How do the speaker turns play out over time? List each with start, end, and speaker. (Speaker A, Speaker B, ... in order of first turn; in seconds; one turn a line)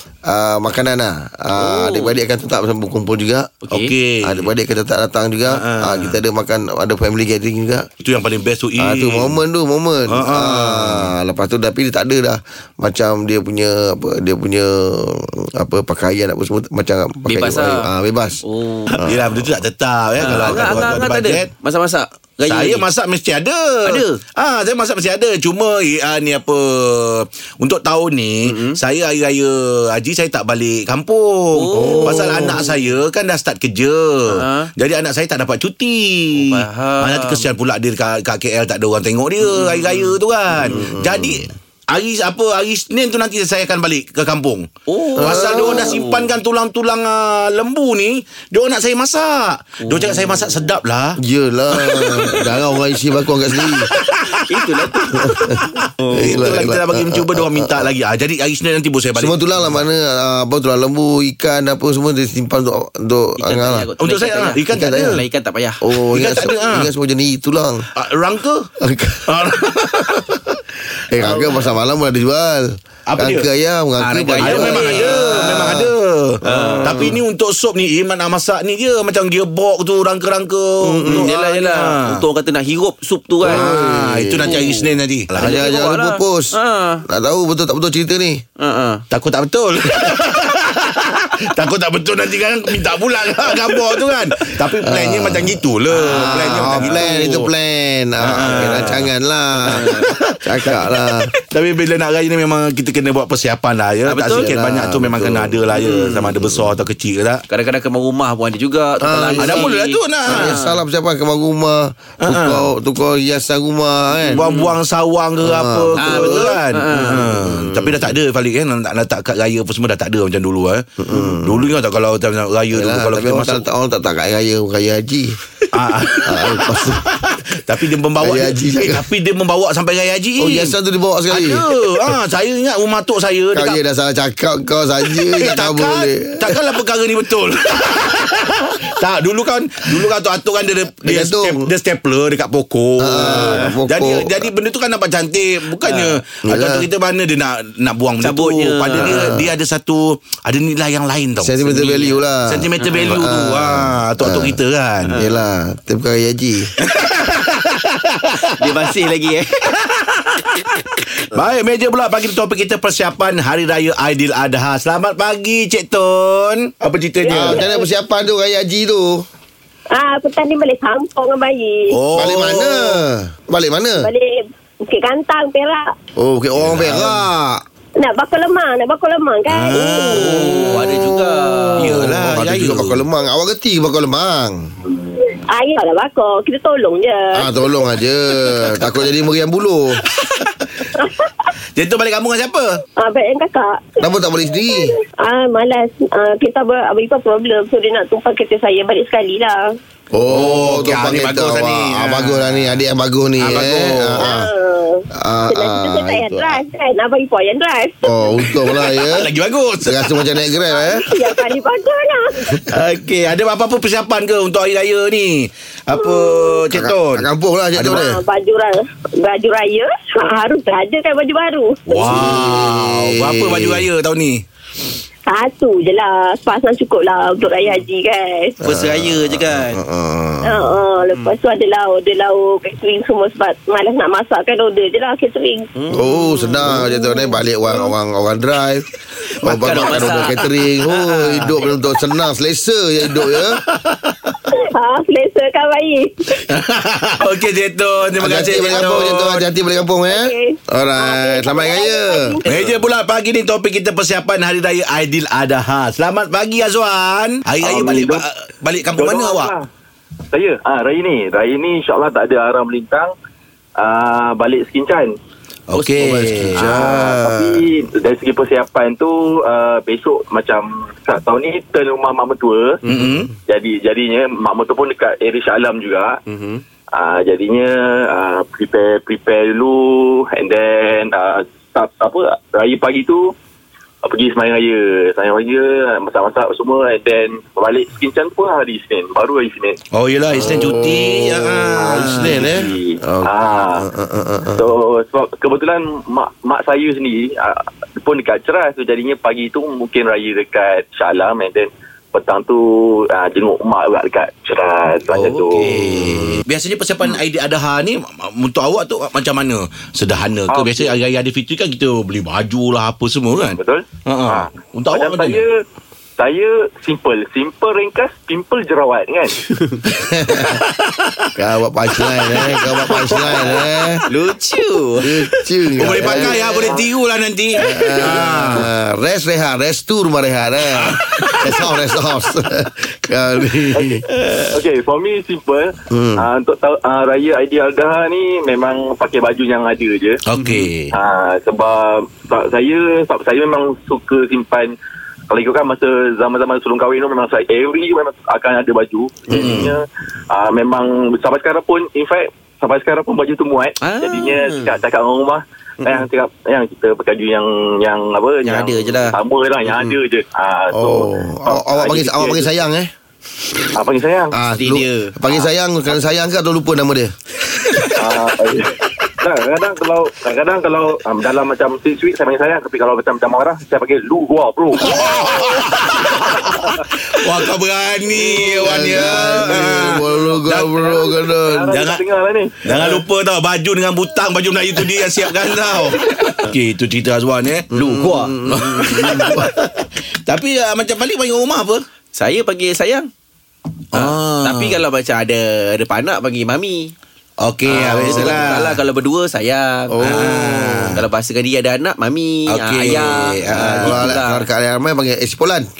Speaker A: 0.2-3.5
Speaker B: 1.6-2.1
Speaker B: 3.6-3.9
Speaker C: 3.7-4.5
Speaker A: 4.2-7.9
Speaker C: 5.5-6.2
Speaker C: 8.0-9.4
Speaker A: 8.8-18.4
Speaker C: 10.1-11.1
Speaker B: 17.3-17.9
Speaker B: 18.4-19.0
Speaker C: 18.9-21.5
Speaker A: 19.0-19.4
Speaker B: 20.2-22.8
Speaker A: 20.5-20.8
Speaker C: 22.5-44.7
Speaker B: 23.8-24.2
Speaker B: 28.4-28.8
Speaker B: 31.5-32.6
Speaker A: 31.8-32.6
Speaker B: 34.3-34.7
Speaker B: 36.3-37.5
Speaker B: 39.4-40.1
Speaker A: 40.6-41.4
Speaker B: 44.9-46.3
Speaker A: 45.2-46.0
Speaker C: 45.2-51.2
Speaker B: 49.8-50.8
Speaker A: 51.2-53.9
Speaker C: 51.7-52.5
Speaker C: 53.6-59.8
Speaker B: 54.5-55.3
Speaker A: 55.1-55.6
Speaker B: 56.0-56.6
Speaker A: 56.1-57.9
Speaker A: 59.1-63.9
Speaker B: 63.4-65.8
Speaker C: 64.0-65.2
Speaker A: 64.7-65.2
Speaker A: 65.8-67.9
Speaker C: 66.1-66.9
Speaker C: 67.9-68.7
Speaker A: 68.8-70.2
Speaker C: 69.3-70.3
Speaker A: 71.1-75.9
Speaker C: 73.1-73.5
Speaker B: 74.0-75.9
Speaker C: 74.4-82.2
Speaker A: 76.4-77.2
Speaker B: 76.5-77.2
Speaker A: 80.8-81.3
Speaker B: 81.0-83.7
Speaker A: 83.4-84.7
Speaker C: 83.4-85.5
Speaker B: 84.4-87.0
Speaker A: 85.4-86.5
Speaker A: 87.1-88.4
Speaker B: 88.6-89.0
Speaker C: 89.1-97.5
Speaker A: 94.8-101.3
Speaker B: 95.9-97.4
Speaker C: 98.2-99.1
Speaker B: 98.4-98.9
Speaker B: 99.6-100.1
Speaker C: 99.7-107.4
Speaker B: 104.1-104.5
Speaker A: 104.3-105.7
Speaker B: 105.7-106.3
Speaker B: 107.5-110.8
Speaker A: 109.0-109.6
Speaker C: 109.4-110.6
Speaker A: 110.3-114.4
Speaker C: 112.2-112.7
Speaker B: 114.3-114.7
Speaker C: 114.3-123.6
Speaker A: 115.4-118.1
Speaker B: 116.0-117.5
Speaker A: 121.0-121.7
Speaker A: 122.7-125.4
Speaker C: 125.7-130.7
Speaker A: 126.2-127.0
Speaker A: 128.2-129.0
Speaker A: 130.4-132.1
Speaker C: 131.3-133.8
Speaker A: 133.5-136.6
Speaker C: 135.2-155.2
Speaker A: 141.0-141.7
Speaker A: 143.0-144.5
Speaker B: 143.2-143.8
Speaker B: 145.8-146.2
Speaker A: 146.4-146.8
Speaker B: 148.2-149.3
Speaker A: 149.0-149.4
Speaker A: 151.4-154.6
Speaker B: 152.8-153.3
Speaker B: 155.1-155.3
Speaker A: 155.1-156.7
Speaker C: 156.8-158.9
Speaker B: 158.6-159.7
Speaker C: 159.7-167.7
Speaker A: 167.3-169.2
Speaker D: 167.4-167.7
Speaker D: 169.9-172.0
Speaker C: 171.9-173.0
Speaker A: 172.1-174.1
Speaker D: 174.0-175.9
Speaker A: 176.2-177.6
Speaker C: 176.6-177.2
Speaker D: 178.0-180.4
Speaker C: 179.5-181.1
Speaker B: 180.2-182.2
Speaker A: 180.3-184.7
Speaker C: 181.8-183.0
Speaker D: 185.3-187.5
Speaker A: 187.3-190.0
Speaker C: 190.1-190.8
Speaker D: 190.9-191.3
Speaker C: 191.7-192.8
Speaker D: 193.0-194.0
Speaker A: 194.0-194.9
Speaker D: 194.7-199.8
Speaker A: 200.1-204.5
Speaker C: 200.3-202.8
Speaker C: 203.4-204.3
Speaker D: 204.2-208.3
Speaker A: 205.1-206.6
Speaker A: 208.0-209.3
Speaker C: 208.4-210.4
Speaker A: 209.8-211.1
Speaker D: 210.7-212.6
Speaker C: 212.7-218.0
Speaker D: 215.9-216.7
Speaker A: 216.7-218.2
Speaker D: 217.8-222.2
Speaker C: 221.9-224.4
Speaker A: 222.1-223.8
Speaker D: 225.2-228.6
Speaker B: 228.6-229.8
Speaker A: 228.6-230.6
Speaker D: 230.4-235.7
Speaker B: 235.8-236.8
Speaker A: 235.9-238.8
Speaker D: 236.8-237.3
Speaker B: 239.3-241.7
Speaker A: 239.4-243.6
Speaker C: 239.6-240.3
Speaker C: 243.4-244.4
Speaker D: 244.5-246.4
Speaker C: 246.5-249.5
Speaker A: 248.2-252.3
Speaker D: 250.1-252.7
Speaker C: 252.4-259.5
Speaker E: 257.6-258.2
Speaker E: 259.0-259.7
Speaker E: 260.3-263.1
Speaker E: 263.8-265.1
Speaker C: 265.7-267.0
Speaker B: 265.7-266.7
Speaker A: 266.0-267.6
Speaker E: 266.8-272.8
Speaker B: 272.9-273.2
Speaker C: 272.9-273.3
Speaker E: 273.5-276.2
Speaker B: 276.3-276.6
Speaker E: 276.9-283.3
Speaker E: 284.0-289.8
Speaker C: 289.9-292.7
Speaker A: 290.3-294.6
Speaker E: 291.8-293.9
Speaker E: 294.5-305.7
Speaker C: 305.1-315.4
Speaker A: 305.5-306.4
Speaker E: 310.5-311.0
Speaker E: 313.4-315.6
Speaker E: 316.2-319.4
Speaker B: 319.4-319.8
Speaker A: 319.9-320.6
Speaker C: 320.3-321.3
Speaker A: 321.4-324.0
Speaker C: 322.1-322.5
Speaker C: 323.0-323.4
Speaker B: 324.1-325.3
Speaker A: 325.0-326.4
Speaker C: 325.8-328.7
Speaker B: 325.8-326.6
Speaker E: 326.1-326.9
Speaker A: 327.6-334.0
Speaker C: 330.7-331.7
Speaker E: 334.5-340.2
Speaker A: 335.9-336.2
Speaker C: 340.2-340.9
Speaker B: 340.4-340.7
Speaker E: 340.9-344.8
Speaker E: 345.3-362.6
Speaker C: 349.3-349.7
Speaker B: 349.3-349.6
Speaker B: 353.8-354.8
Speaker B: 358.4-359.2
Speaker A: 360.7-362.9
Speaker E: 363.7-364.4
Speaker A: 364.3-367.1
Speaker B: 364.6-365.5
Speaker E: 368.0-375.4
Speaker C: 374.8-380.9
Speaker A: 374.9-375.4
Speaker E: 376.4-376.8
Speaker A: 378.4-381.7
Speaker E: 379.6-382.6
Speaker C: 381.7-382.0
Speaker C: 382.6-391.8
Speaker A: 387.7-389.5
Speaker B: 388.7-389.3
Speaker B: 392.1-393.1
Speaker C: 393.9-394.8
Speaker B: 393.9-396.9
Speaker C: 397.4-398.8
Speaker B: 397.7-404.5
Speaker A: 397.7-398.6
Speaker A: 399.9-401.0
Speaker C: 400.0-401.0
Speaker C: 402.5-404.1
Speaker A: 403.5-405.7